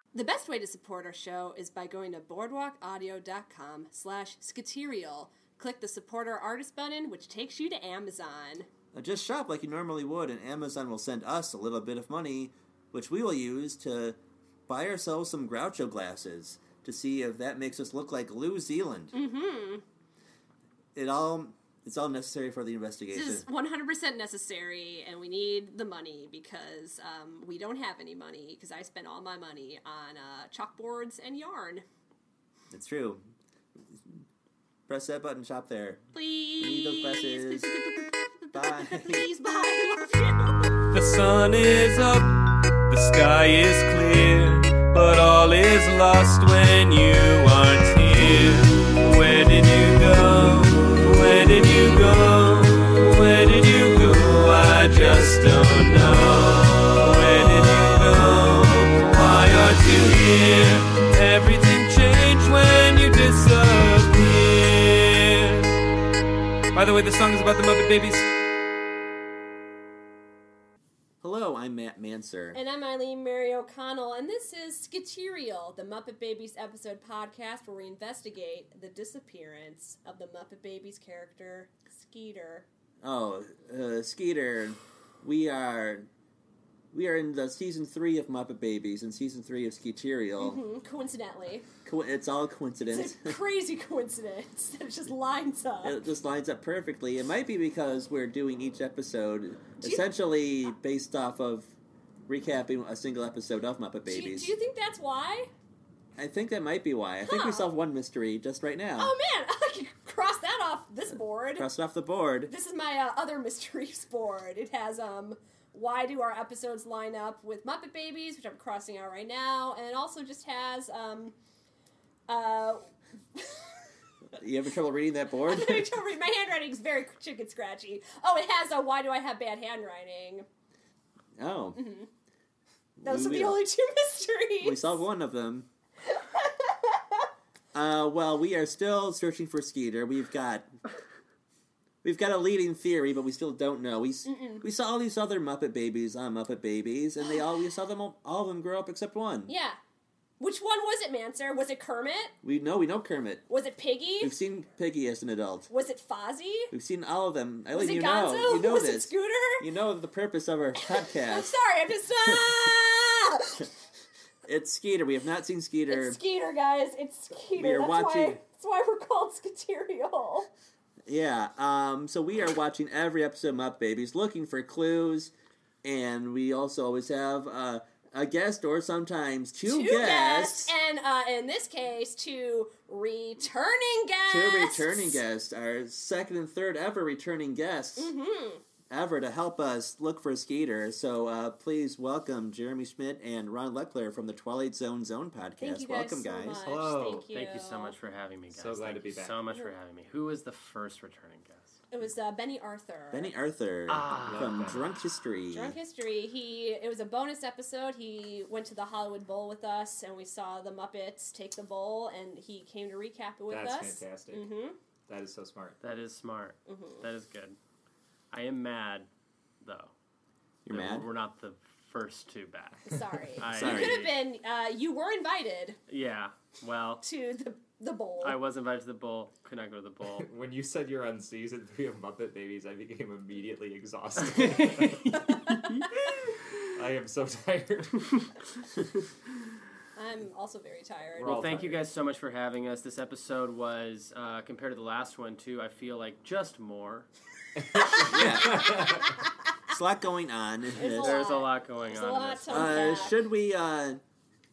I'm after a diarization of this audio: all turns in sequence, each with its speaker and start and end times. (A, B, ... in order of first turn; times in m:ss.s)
0:00.1-0:08.7 A
0:08.9-0:19.1 B
0:19.1-0:19.8 A
0:20.9-0:23.4 B
0:23.1-0:31.8 A
0:32.7-0:33.2 B
0:34.9-0:36.0 B
0:36.1-0:40.7 A
0:36.6-0:37.7 B
0:38.5-0:39.2 B
0:40.9-0:42.3 C
0:42.9-1:05.7 C
1:06.7-1:08.3 C
1:11.2-1:12.6 B
1:12.5-1:22.6 A
1:23.0-1:26.1 B
1:26.9-1:30.6 B
1:30.4-1:31.6 A
1:31.8-1:33.4 B
1:32.9-1:36.0 A
1:35.8-1:41.7 B
1:42.3-1:44.5 B
1:44.0-1:45.5 A
1:46.2-1:49.1 B
1:47.2-1:47.7 A
1:49.0-1:51.7 A
1:51.6-1:52.5 B
1:52.5-2:01.3 A
2:02.3-2:03.7 A
2:04.3-2:06.0 B
2:05.4-2:10.4 A
2:11.4-2:11.8 B
2:11.8-2:12.1 A
2:13.0-2:13.6 B
2:13.0-2:15.0 A
2:14.6-2:15.7 B
2:16.0-2:17.3 A
2:17.7-2:20.7 B
2:22.0-2:29.5 B
2:24.2-2:24.6 A
2:29.5-2:29.8 A
2:30.4-2:32.3 A
2:32.4-2:33.4 B
2:33.5-2:34.4 A
2:34.2-2:35.7 B
2:35.7-2:36.7 A
2:36.7-2:41.6 B
2:37.7-2:39.7 A
2:40.8-2:43.7 A
2:42.2-2:42.7 B
2:44.4-2:46.2 B
2:45.9-2:50.5 A
2:47.5-2:48.4 B
2:51.0-2:55.3 B
2:55.8-3:00.7 B
2:59.6-3:05.2 A
3:04.3-3:08.1 B
3:08.0-3:08.6 A
3:08.9-3:16.6 B
3:15.6-3:18.0 A
3:16.6-3:17.3 D
3:17.3-3:21.7 E
3:18.5-3:19.4 D
3:21.9-3:23.3 A
3:23.1-3:25.7 B
3:23.9-3:24.6 E
3:24.2-3:24.9 D
3:25.5-3:34.8 A
3:33.5-3:34.5 D
3:35.1-3:35.8 D
3:35.8-3:37.6 E
3:36.7-3:37.0 A
3:38.3-3:39.1 E
3:39.6-3:39.9 E
3:40.6-3:41.1 B
3:40.7-3:42.8 E
3:42.8-3:45.8 A
3:43.4-3:44.1 E
3:43.5-3:44.0 B
3:45.9-3:47.0 E
3:47.0-3:48.4 A
3:48.2-3:50.3 E
3:50.2-3:55.5 D
3:54.2-3:56.4 E
3:56.7-3:58.3 D
4:00.0-4:01.5 A
4:01.2-4:01.8 D
4:01.2-4:07.1 E
4:07.6-4:09.1 D
4:07.9-4:08.8 B
4:09.7-4:11.2 B
4:10.7-4:13.2 A
4:10.8-4:13.1 E
4:12.5-4:14.0 B